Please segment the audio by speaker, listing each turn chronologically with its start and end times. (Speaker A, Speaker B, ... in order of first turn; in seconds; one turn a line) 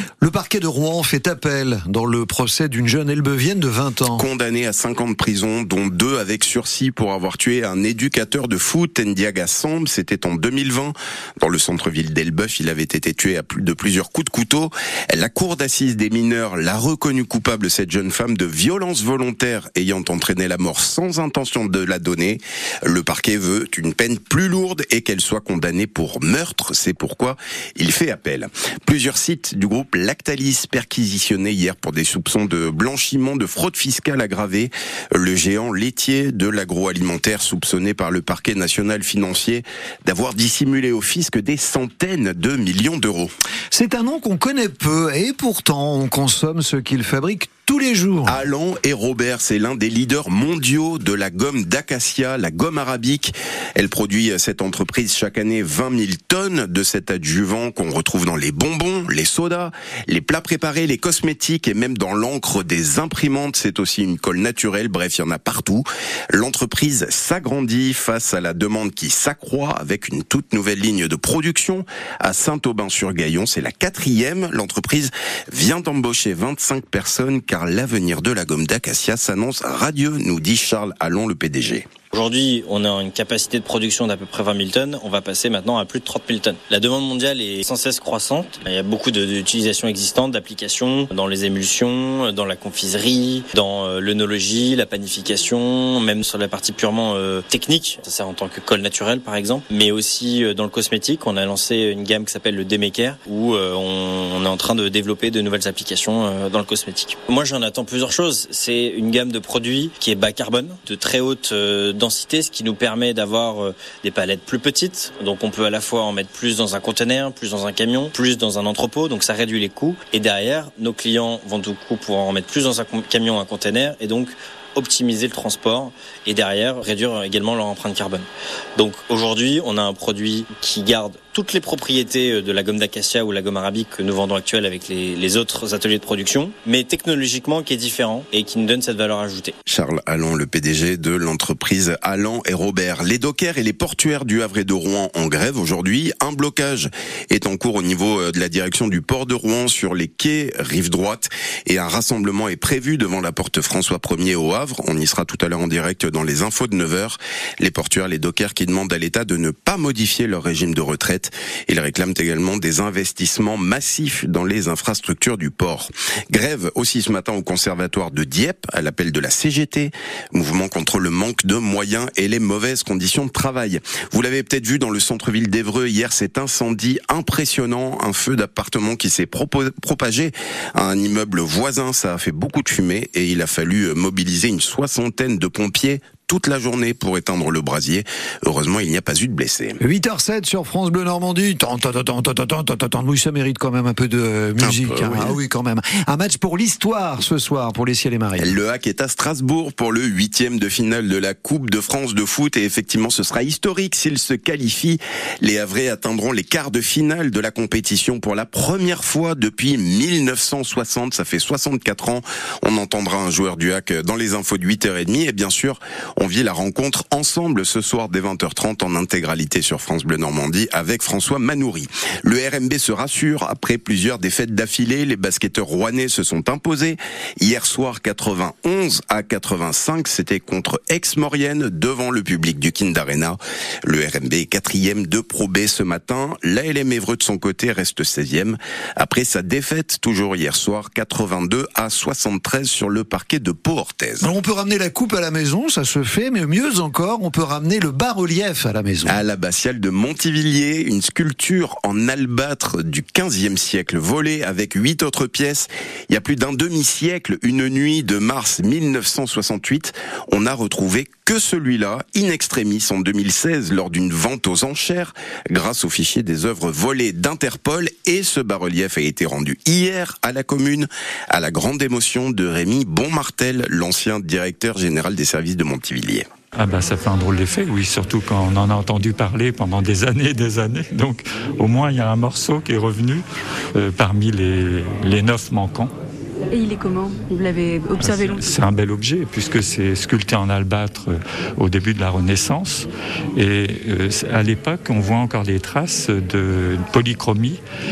Speaker A: 0.2-4.2
Speaker B: 4.1-43.3
Speaker A: 43.7-48.4
Speaker B: 48.2-81.9
Speaker C: 82.1-139.5
Speaker B: 139.7-189.8
Speaker A: 189.8-198.5
Speaker B: 194.6-195.4
Speaker B: 198.4-244.3
Speaker A: 244.2-249.2
Speaker B: 249.1-276.2
Speaker D: 276.5-283.2
Speaker D: 283.7-285.9
Speaker E: 286.5-288.6
Speaker D: 287.9-297.6